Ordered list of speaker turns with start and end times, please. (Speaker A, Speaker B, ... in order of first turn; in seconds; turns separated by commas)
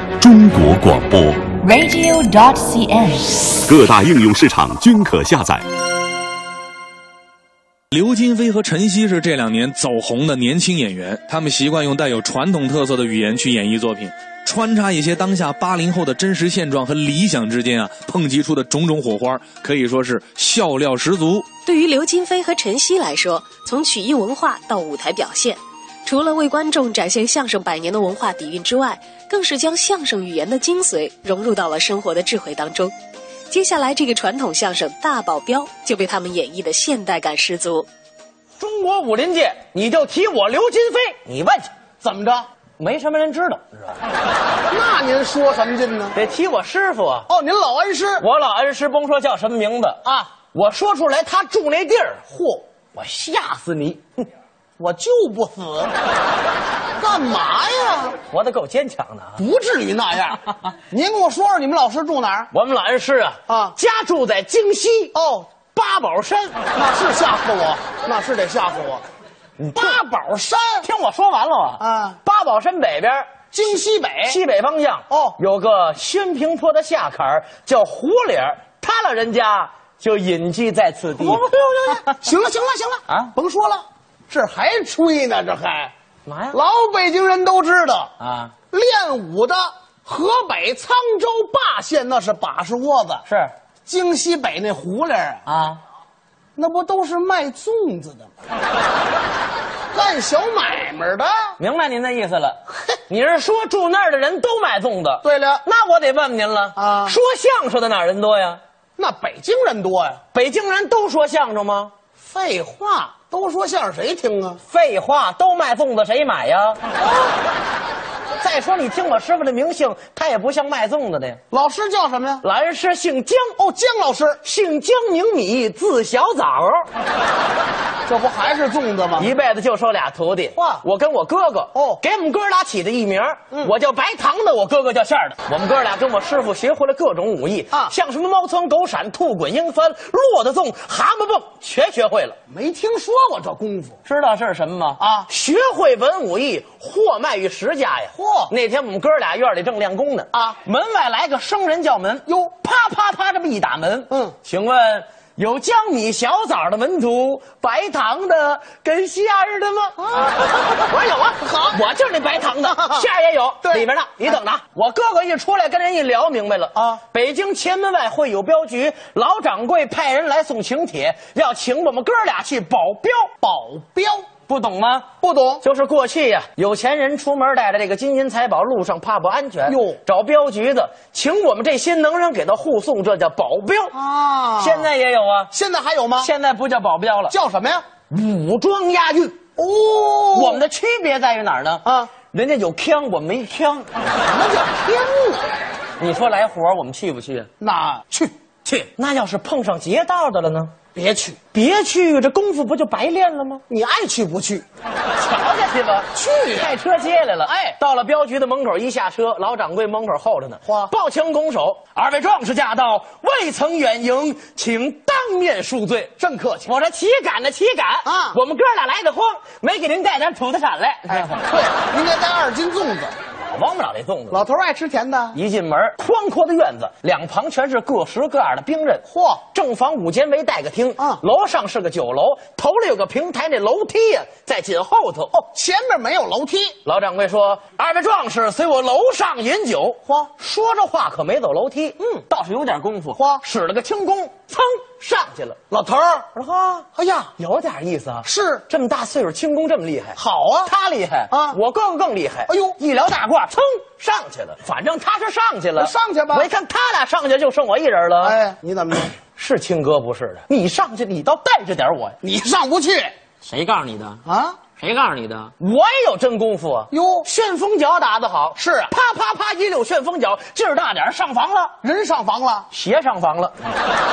Speaker A: 0.2-1.4, Speaker B: 1.6-3.6, Speaker A: 3.7-5.7, Speaker C: 7.9-21.5, Speaker D: 21.7-32.9, Speaker D: 33.5-37.9, Speaker E: 38.6-41.7, Speaker F: 42.0-42.5, Speaker E: 42.8-44.0, Speaker F: 44.7-46.2, Speaker E: 46.1-47.3, Speaker F: 47.3-48.2, Speaker E: 48.2-54.3, Speaker F: 50.0-50.3, Speaker F: 54.8-55.9, Speaker F: 57.0-58.2, Speaker E: 58.3-59.4, Speaker F: 59.4-62.5, Speaker E: 62.5-65.2, Speaker F: 63.5-63.8, Speaker F: 65.1-65.5, Speaker E: 65.7-66.6, Speaker F: 66.7-69.0, Speaker E: 69.6-70.0, Speaker F: 69.7-70.9, Speaker E: 70.8-73.3, Speaker F: 71.8-72.2, Speaker F: 73.5-74.4, Speaker E: 74.3-82.2, Speaker F: 75.1-75.4, Speaker F: 81.2-85.9, Speaker E: 83.1-83.3, Speaker E: 86.3-86.6, Speaker F: 86.5-88.1, Speaker E: 88.2-88.5, Speaker F: 88.7-93.2, Speaker E: 93.2-93.5, Speaker F: 93.9-95.4, Speaker E: 95.5-95.8, Speaker F: 96.6-98.3, Speaker F: 99.9-101.6, Speaker E: 101.6-108.6, Speaker F: 105.2-105.6, Speaker F: 106.8-107.2, Speaker F: 109.0-110.2, Speaker E: 110.3-111.9, Speaker F: 112.2-114.6, Speaker E: 114.7-116.8, Speaker F: 117.0-117.3, Speaker E: 118.4-121.4, Speaker F: 121.5-122.4, Speaker E: 122.4-123.5, Speaker F: 123.6-124.4, Speaker E: 124.4-126.9, Speaker F: 128.1-129.3, Speaker E: 129.2-142.4, Speaker F: 130.6-130.8, Speaker F: 131.7-132.0, Speaker F: 142.5-144.0, Speaker E: 144.1-173.3, Speaker F: 145.0-145.3, Speaker F: 148.2-148.5, Speaker F: 160.0-160.6, Speaker F: 161.4-161.8, Speaker F: 162.7-163.1, Speaker F: 163.6-164.4, Speaker F: 166.8-167.0, Speaker F: 173.4-174.3, Speaker E: 174.5-175.1, Speaker F: 175.2-175.6, Speaker E: 175.6-183.9, Speaker F: 179.7-180.0, Speaker F: 183.9-184.9, Speaker E: 184.6-185.5, Speaker F: 185.5-186.3, Speaker E: 186.2-187.4, Speaker F: 187.3-187.8, Speaker E: 188.1-189.4, Speaker F: 189.6-190.6, Speaker E: 190.3-193.9, Speaker F: 191.8-192.1, Speaker F: 194.2-195.5, Speaker E: 196.0-197.5, Speaker F: 197.6-198.3, Speaker E: 198.7-200.8, Speaker F: 200.9-201.4, Speaker E: 201.5-203.6, Speaker F: 203.7-204.7, Speaker E: 205.2-221.4, Speaker F: 206.1-206.8, Speaker F: 207.5-207.7, Speaker F: 210.7-210.9, Speaker F: 216.2-216.7, Speaker F: 218.0-218.4, Speaker F: 221.1-223.2, Speaker E: 223.4-224.4, Speaker F: 224.3-225.4, Speaker E: 225.3-235.3, Speaker F: 229.1-229.4, Speaker F: 235.3-236.8, Speaker E: 236.8-245.6, Speaker F: 240.1-240.3, Speaker F: 243.2-243.4, Speaker F: 245.7-246.3, Speaker E: 246.3-258.4, Speaker F: 246.9-247.3, Speaker F: 248.2-248.7, Speaker F: 250.2-250.7, Speaker F: 251.3-251.6, Speaker F: 252.5-252.8, Speaker F: 255.8-256.5, Speaker F: 258.2-259.2, Speaker E: 259.4-262.2, Speaker F: 262.2-263.1, Speaker E: 263.4-264.2, Speaker F: 264.2-264.6, Speaker E: 264.8-271.8, Speaker F: 266.9-267.3, Speaker F: 268.6-268.9, Speaker F: 271.8-272.7, Speaker E: 272.7-273.6